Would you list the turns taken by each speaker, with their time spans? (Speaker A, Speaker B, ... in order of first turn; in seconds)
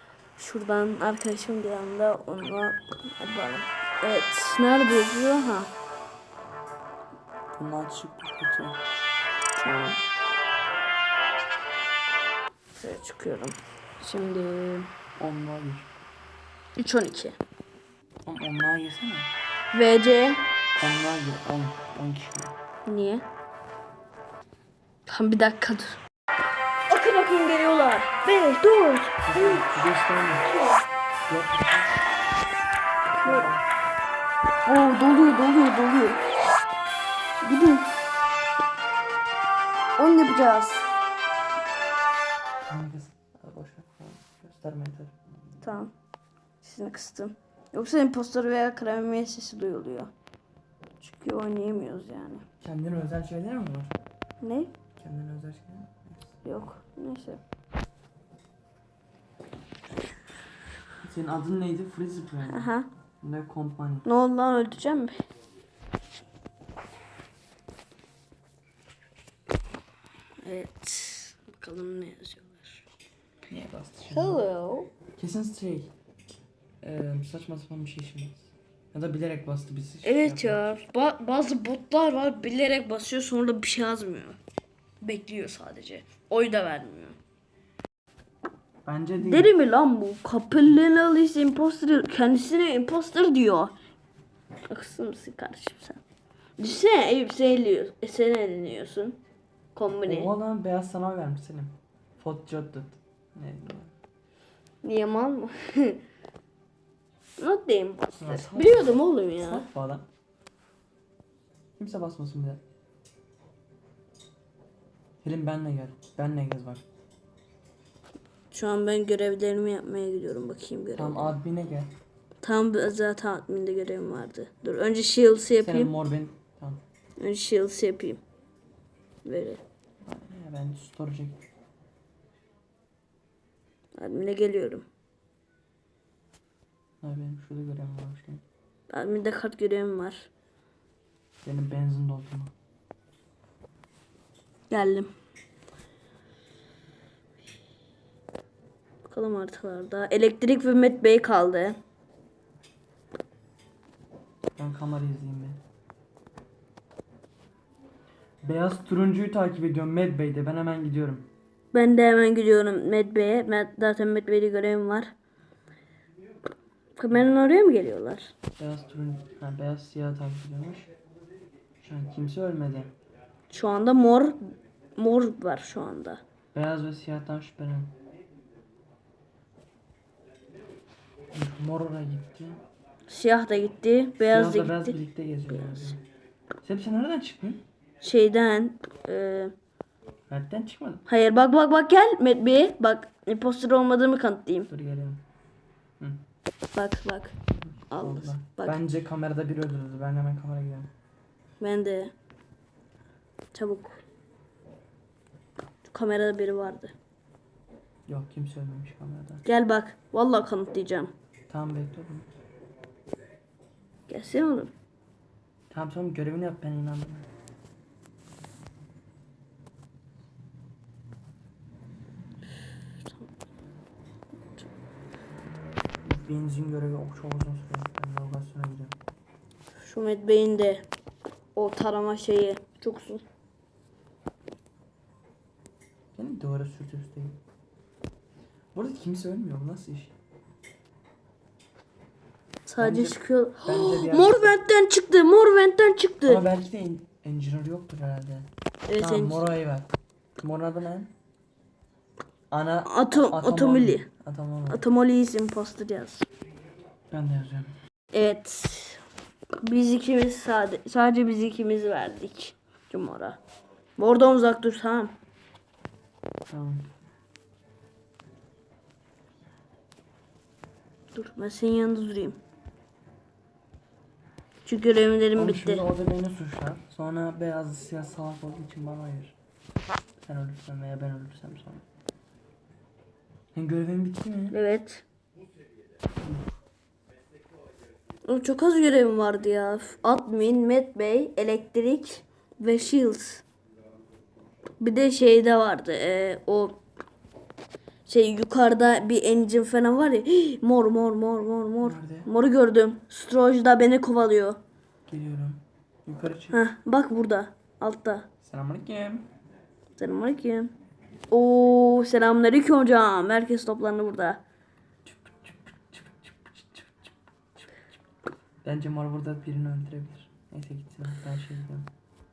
Speaker A: 0.4-5.7, 9.6-10.0, 12.8-14.9, 16.8-17.4, 19.7-20.4, 22.9-23.2, 25.1-26.0, 26.9-30.8, 33.2-33.5, 34.6-36.2, 37.4-37.9, 40.0-40.9, 45.6-45.9, 46.6-50.1, 51.0-52.4, 54.4-54.7, 56.4-57.4, 62.5-62.9, 64.0-65.2, 70.4-72.8, 74.1-74.9, 80.0-84.4, 85.0-87.2, 89.2-93.7, 94.7-96.0, 96.6-99.2, 99.7-100.3, 104.8-106.0, 107.4-109.6, 118.5-121.3, 122.4-125.9, 127.2-128.2, 129.2-129.6, 133.9-134.8, 138.9-140.3, 144.7-145.1, 149.0-151.8, 161.7-165.1, 167.0-168.3, 173.5-174.4, 174.9-176.2, 183.1-185.0, 185.5-186.0, 188.0-189.5, 191.1-194.7, 196.7-197.3, 197.9-198.8, 201.6-202.1, 203.5-204.0, 205.8-206.9, 209.4-211.1, 214.1-214.7, 229.8-230.8, 231.5-233.2, 242.7-246.4, 248.9-249.5, 252.8-254.1, 254.7-256.2, 258.1-259.0, 259.6-263.4, 264.0-265.1, 271.1-272.4, 274.6-275.8, 284.5-285.0, 288.2-293.4, 294.8-296.8, 298.1-304.6, 306.5-308.3, 310.0-310.7, 311.3-314.4
Speaker B: 7.5-8.8, 15.2-15.9, 18.2-19.3, 20.8-22.5, 29.2-30.5, 31.3-31.9, 33.1-33.6, 42.7-45.1, 52.6-54.0, 55.0-56.3, 61.0-64.0, 73.5-74.5, 75.2-75.9, 76.8-80.6, 88.8-89.5, 100.0-103.9, 108.1-110.1, 111.8-112.6, 115.2-116.8, 120.9-121.9, 125.6-126.8, 130.0-131.4, 137.0-138.4, 141.4-142.5, 154.6-155.6, 158.4-161.3, 168.6-170.9, 171.8-172.9, 176.5-177.9, 181.3-182.6, 184.2-186.0, 186.6-187.6, 190.3-191.0, 194.7-195.2, 197.5-200.9, 208.1-209.4, 211.5-212.3, 215.7-217.3, 226.0-228.9, 236.1-237.4, 238.7-240.1, 242.8-244.6, 246.2-251.1, 252.5-254.8, 257.1-257.7, 266.5-266.9, 275.4-279.4, 280.2-281.8, 283.5-284.5, 301.8-302.3, 305.1-306.6, 308.4-309.3, 315.0-317.1, 318.6-321.9